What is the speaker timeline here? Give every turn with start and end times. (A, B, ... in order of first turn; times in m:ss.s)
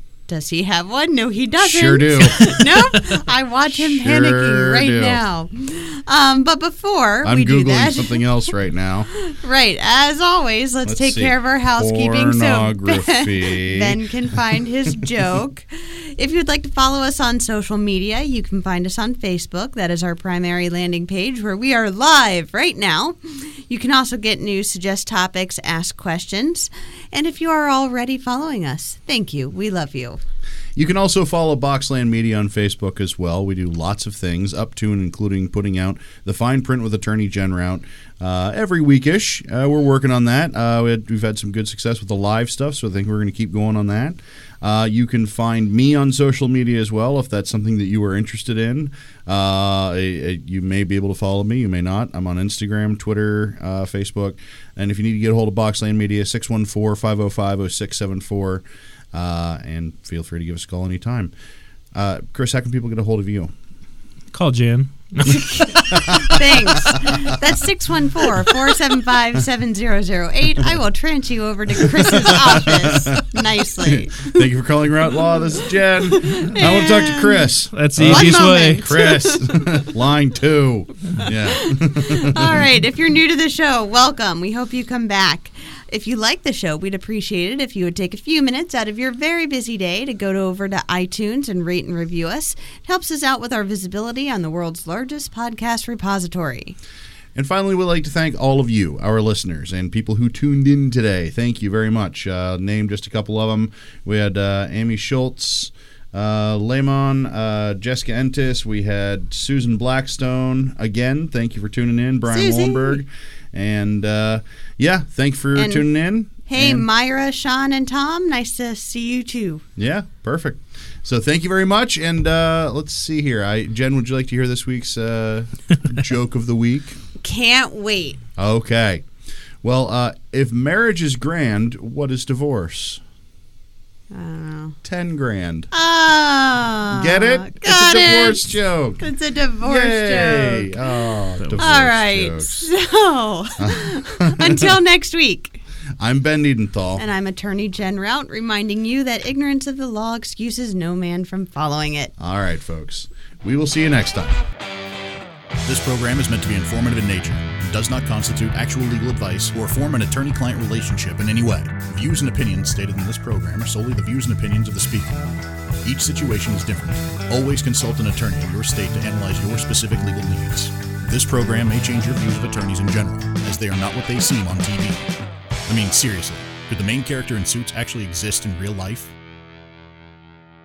0:00.3-0:08.5 A
0:01.6-0:02.6 B
0:03.7-0:05.2 B
0:07.2-0:09.1 B
0:09.1-0:30.2 A
0:10.8-0:14.0 B
0:30.8-0:58.6 B
0:59.1-1:01.3 B
1:02.0-1:03.5 B
1:04.3-1:05.5 C
1:05.2-1:14.4 A
1:05.3-1:07.4 B
1:12.1-1:22.6 B
1:16.0-1:17.5 A
1:17.7-1:18.9 C
1:18.0-1:19.7 A
1:21.3-1:36.8 A
1:37.4-1:56.9 B
1:52.3-1:53.0 A
1:55.6-1:59.6 A
1:59.8-2:07.0 B
2:07.2-2:08.2 A
2:08.4-2:09.0 B
2:09.6-2:13.0 B
2:14.1-2:14.8 A
2:14.8-2:15.7 B
2:15.7-2:25.6 A
2:16.9-2:19.0 B
2:19.6-2:22.7 B
2:21.4-2:21.7 C
2:23.6-2:24.7 B
2:26.0-2:27.0 B
2:27.0-2:32.1 A
2:32.2-2:34.4 B
2:35.6-2:45.2 D
2:45.8-2:55.1 D
2:55.7-2:59.1 D